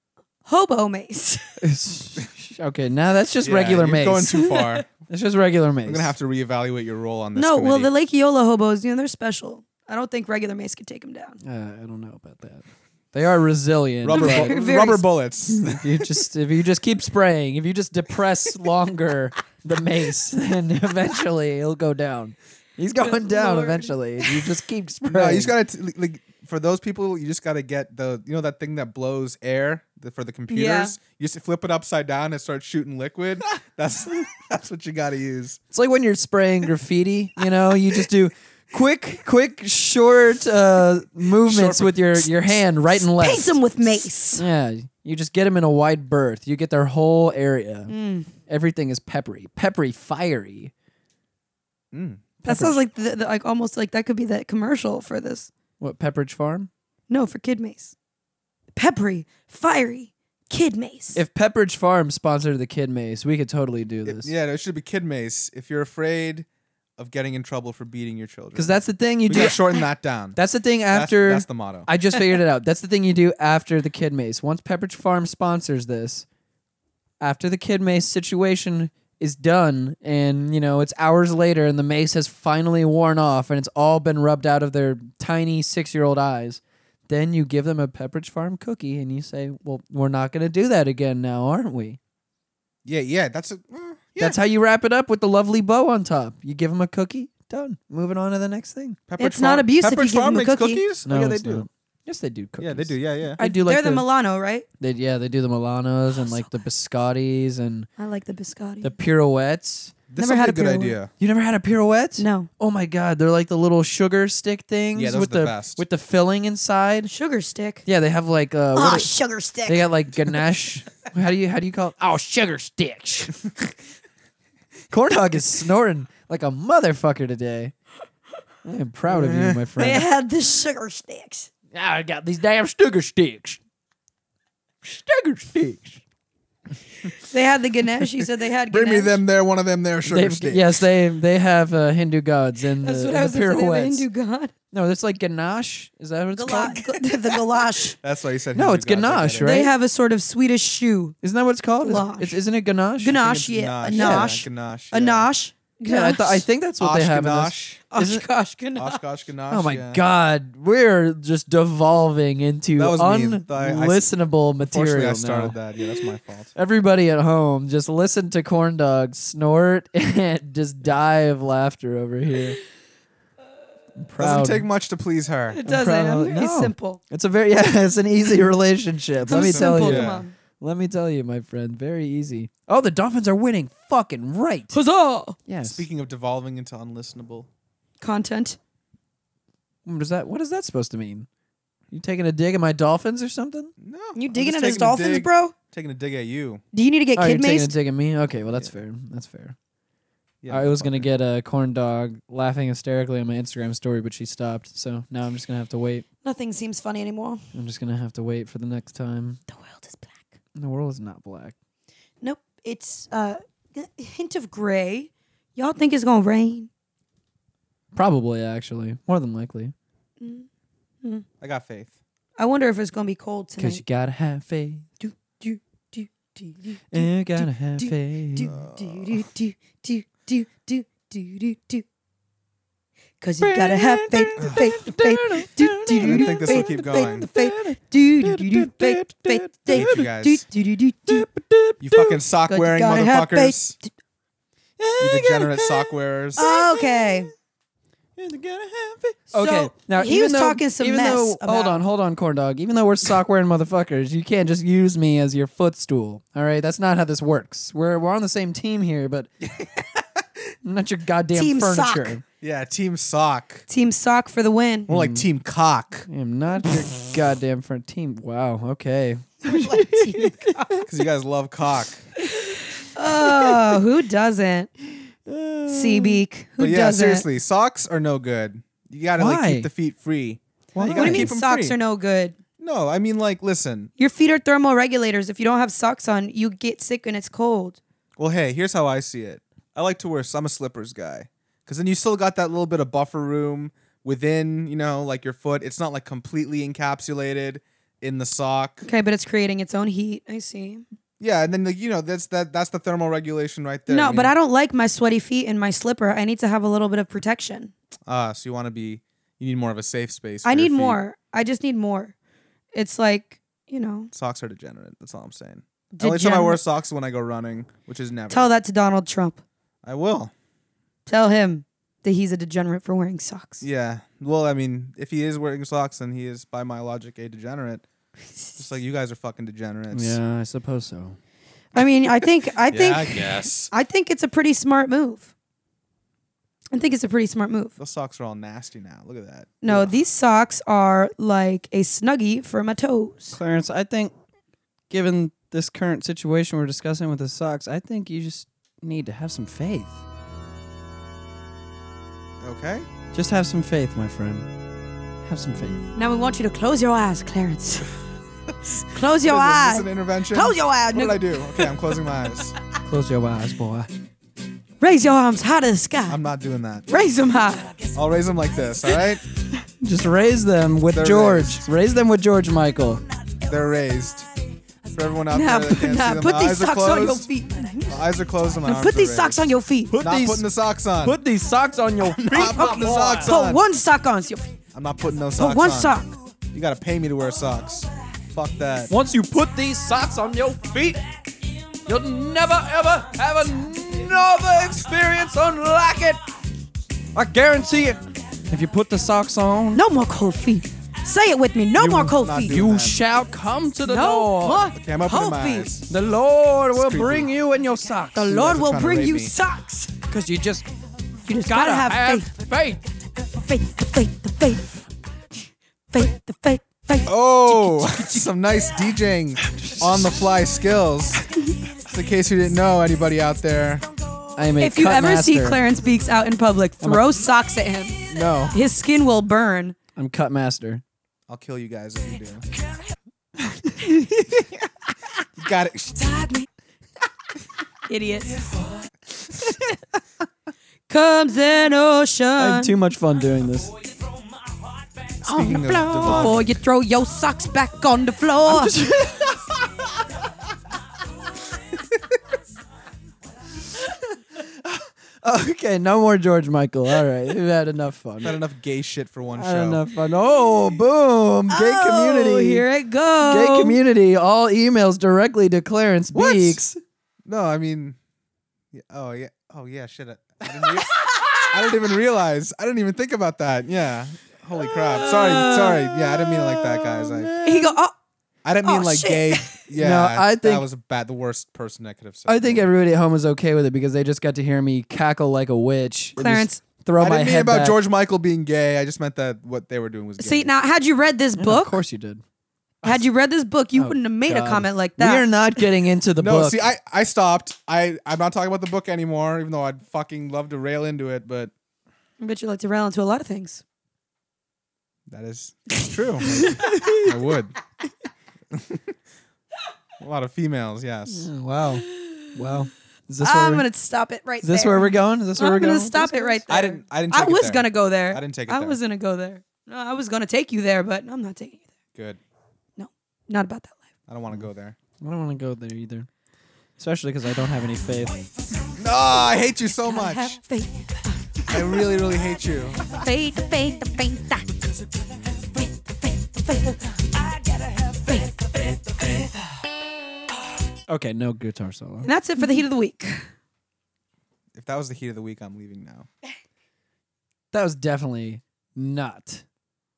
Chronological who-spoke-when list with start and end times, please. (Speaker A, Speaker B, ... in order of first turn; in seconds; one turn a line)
Speaker A: 0.5-1.5
Speaker B: 1.6-4.5
Speaker C: 3.4-4.9
Speaker A: 4.5-4.8
Speaker B: 5.1-6.2
Speaker C: 5.9-7.9
Speaker A: 7.3-11.4
Speaker B: 11.4-14.6
Speaker C: 14.0-16.2
Speaker A: 14.1-15.1
Speaker B: 15.6-25.5
Speaker A: 23.0-24.4
Speaker C: 25.1-35.6
Speaker A: 30.5-31.0
Speaker B: 35.7-43.6
Speaker C: 41.4-42.6
Speaker A: 43.2-44.4
Speaker B: 44.4-47.9
Speaker A: 47.9-48.3
Speaker B: 48.5-50.7
Speaker C: 51.9-52.2
Speaker B: 52.4-52.8
Speaker A: 52.4-55.5
Speaker B: 55.8-56.7
Speaker A: 57.1-57.9
Speaker A: 58.8-61.2
Speaker B: 61.1-64.3
Speaker C: 64.1-71.9
Speaker B: 68.5-69.7
Speaker B: 70.3-76.3
Speaker B: 77.2-92.0
Speaker C: 92.8-94.4
Speaker B: 94.2-99.0
Speaker C: 99.1-101.7
Speaker A: 99.2-100.8
Speaker B: 101.1-104.0
Speaker C: 102.6-103.4
Speaker A: 103.4-104.7
Speaker B: 104.8-107.9
Speaker A: 108.0-108.9
Speaker B: 108.8-109.9
Speaker C: 110.1-111.1
Speaker A: 110.2-111.0
Speaker B: 111.2-117.1
Speaker A: 112.2-112.5
Speaker C: 115.0-115.8
Speaker A: 117.1-117.8
Speaker B: 117.8-119.1
Speaker A: 118.8-119.9
Speaker B: 119.7-123.4
Speaker B: 124.9-127.7
Speaker B: 128.6-130.1
Speaker C: 129.1-129.7
Speaker A: 129.8-131.5
Speaker B: 131.7-133.6
Speaker B: 134.8-136.0
Speaker A: 137.3-139.2
Speaker C: 138.7-140.8
Speaker B: 140.1-144.1
Speaker A: 142.8-144.5
Speaker B: 144.7-146.8
Speaker A: 146.4-148.0
Speaker C: 146.7-147.2
Speaker C: 148.0-149.6
Speaker B: 148.6-149.7
Speaker A: 149.4-151.2
Speaker B: 151.2-153.2
Speaker A: 151.8-152.4
Speaker A: 153.0-156.4
Speaker C: 153.1-155.3
Speaker B: 153.9-154.3
Speaker B: 155.8-158.2
Speaker C: 156.8-157.8
Speaker A: 157.9-159.0
Speaker C: 158.8-160.0
Speaker B: 159.5-165.6
Speaker C: 162.8-166.5
Speaker B: 166.6-172.6
Speaker B: 174.0-174.7
Speaker C: 174.2-175.6
Speaker A: 175.5-177.0
Speaker B: 175.7-184.8
Speaker C: 179.2-180.3
Speaker A: 179.3-180.3
Speaker A: 184.7-185.4
Speaker B: 185.5-185.8
Speaker C: 185.6-187.5
Speaker A: 188.0-188.6
Speaker B: 189.9-191.3
Speaker B: 191.9-193.7
Speaker C: 193.8-196.6
Speaker A: 194.2-195.5
Speaker A: 196.7-197.7
Speaker B: 197.2-199.6
Speaker C: 198.5-198.8
Speaker C: 200.4-201.1
Speaker B: 200.5-206.1
Speaker A: 206.2-207.4
Speaker B: 207.5-209.4
Speaker A: 209.5-210.3
Speaker B: 210.6-211.6
Speaker A: 212.2-216.7
Speaker B: 217.9-219.7
Speaker A: 220.2-220.5
Speaker C: 221.4-222.0
Speaker A: 222.4-223.8
Speaker B: 223.6-224.9
Speaker A: 225.0-231.8
Speaker B: 226.9-228.5
Speaker C: 228.4-229.3
Speaker A: 233.2-241.3
Speaker B: 233.4-240.1
Speaker C: 236.0-237.3
Speaker C: 239.7-240.4
Speaker B: 241.1-242.1
Speaker C: 241.8-243.8
Speaker A: 242.5-243.9
Speaker B: 244.8-245.9
Speaker C: 245.0-246.4
Speaker B: 246.4-247.3
Speaker A: 246.4-247.3
Speaker B: 248.2-259.3
Speaker A: 249.3-251.8
Speaker C: 259.4-260.2
Speaker B: 260.6-262.2
Speaker A: 261.3-262.1
Speaker C: 262.4-263.7
Speaker A: 263.7-264.9
Speaker B: 264.9-265.3
Speaker C: 264.9-266.1
Speaker B: 266.1-270.8
Speaker A: 269.5-270.9
Speaker C: 270.9-272.1
Speaker A: 272.8-274.7
Speaker B: 273.2-273.8
Speaker B: 275.3-276.2
Speaker A: 275.7-277.2
Speaker C: 276.6-281.8
Speaker B: 279.2-279.7
Speaker B: 280.8-281.4
Speaker A: 280.9-282.4
Speaker C: 282.6-283.9
Speaker A: 284.0-287.8
Speaker C: 288.2-298.9
Speaker A: 298.8-300.8
Speaker C: 301.2-304.3
Speaker A: 303.9-307.7
Speaker C: 308.1-311.0
Speaker A: 310.4-312.1
Speaker A: 312.7-314.1
Speaker C: 314.1-318.5
Speaker A: 316.0-316.6
Speaker A: 318.3-319.4
Speaker C: 319.8-320.3
Speaker A: 321.1-323.6
Speaker C: 323.6-327.9
Speaker C: 328.6-330.2
Speaker B: 329.9-331.2
Speaker A: 331.8-335.3
Speaker C: 332.7-333.7
Speaker A: 336.7-337.8
Speaker C: 337.8-339.9
Speaker A: 339.6-343.4
Speaker B: 343.3-344.1
Speaker B: 344.9-350.0
Speaker C: 352.4-352.9
Speaker B: 353.1-354.5
Speaker B: 355.2-355.9
Speaker A: 356.0-357.9
Speaker C: 358.7-362.6
Speaker A: 358.9-361.7
Speaker B: 362.9-363.9
Speaker A: 364.8-366.2
Speaker C: 366.1-366.9
Speaker A: 366.9-367.9
Speaker C: 367.9-369.2
Speaker B: 369.8-373.0
Speaker C: 370.9-371.7
Speaker C: 373.5-374.3
Speaker C: 374.9-377.3
Speaker A: 375.3-378.0
Speaker C: 377.9-379.5
Speaker A: 378.6-379.9
Speaker B: 379.9-383.4
Speaker C: 380.0-381.2
Speaker C: 382.2-383.6
Speaker A: 382.6-384.5
Speaker C: 384.7-388.9
Speaker A: 385.4-386.1
Speaker B: 388.9-391.0
Speaker B: 391.9-396.2
Speaker B: 397.1-399.8
Speaker A: 399.7-402.6
Speaker C: 401.8-403.0
Speaker B: 402.4-404.6
Speaker A: 403.8-405.7
Speaker C: 404.7-405.9
Speaker B: 405.9-408.2
Speaker C: 406.7-407.3
Speaker A: 408.1-409.9
Speaker C: 408.2-409.3
Speaker B: 410.1-410.7
Speaker A: 411.3-412.3
Speaker B: 411.4-412.8
Speaker A: 413.4-414.8
Speaker A: 415.9-418.3
Speaker C: 417.1-421.3
Speaker B: 419.6-420.1
Speaker C: 421.9-423.9
Speaker B: 424.4-425.6
Speaker A: 424.6-429.8
Speaker C: 428.1-428.6
Speaker B: 430.0-430.8
Speaker C: 431.3-432.5
Speaker C: 435.4-436.1
Speaker A: 436.0-436.5
Speaker A: 437.9-438.4
Speaker A: 440.9-442.8
Speaker B: 442.4-443.7
Speaker C: 445.2-446.6
Speaker A: 445.3-448.8
Speaker B: 446.0-446.4
Speaker B: 448.4-449.4
Speaker B: 454.6-458.4
Speaker C: 458.2-459.9
Speaker B: 459.4-462.6
Speaker A: 461.5-463.8
Speaker B: 463.2-466.8
Speaker C: 466.1-466.6
Speaker C: 467.2-468.0
Speaker C: 468.7-477.3
Speaker A: 471.2-471.4
Speaker A: 474.9-475.9
Speaker B: 475.0-477.8
Speaker A: 477.4-477.9
Speaker C: 478.4-482.7
Speaker A: 478.6-479.6
Speaker B: 479.8-480.7
Speaker B: 482.3-487.8
Speaker A: 486.2-486.6
Speaker C: 487.0-490.5
Speaker A: 490.2-491.8
Speaker B: 491.4-492.2
Speaker A: 492.8-495.3
Speaker B: 493.8-496.6
Speaker C: 496.2-501.5
Speaker A: 502.2-503.6
Speaker C: 505.1-507.6
Speaker A: 506.3-506.8
Speaker B: 506.6-507.1
Speaker C: 508.5-508.9
Speaker C: 510.0-511.3
Speaker B: 511.1-513.7
Speaker A: 511.9-512.2
Speaker A: 513.2-521.7
Speaker B: 514.4-516.4
Speaker C: 516.5-518.8
Speaker C: 522.0-522.2
Speaker A: 522.8-523.8
Speaker C: 524.1-524.8
Speaker B: 525.0-526.1
Speaker B: 526.8-528.3
Speaker C: 528.8-530.4
Speaker A: 529.8-531.9
Speaker C: 531.5-532.8
Speaker A: 532.9-534.6
Speaker A: 535.6-536.9
Speaker A: 537.8-539.3
Speaker B: 540.9-542.1
Speaker A: 542.0-543.3
Speaker C: 544.5-546.1
Speaker B: 547.5-549.4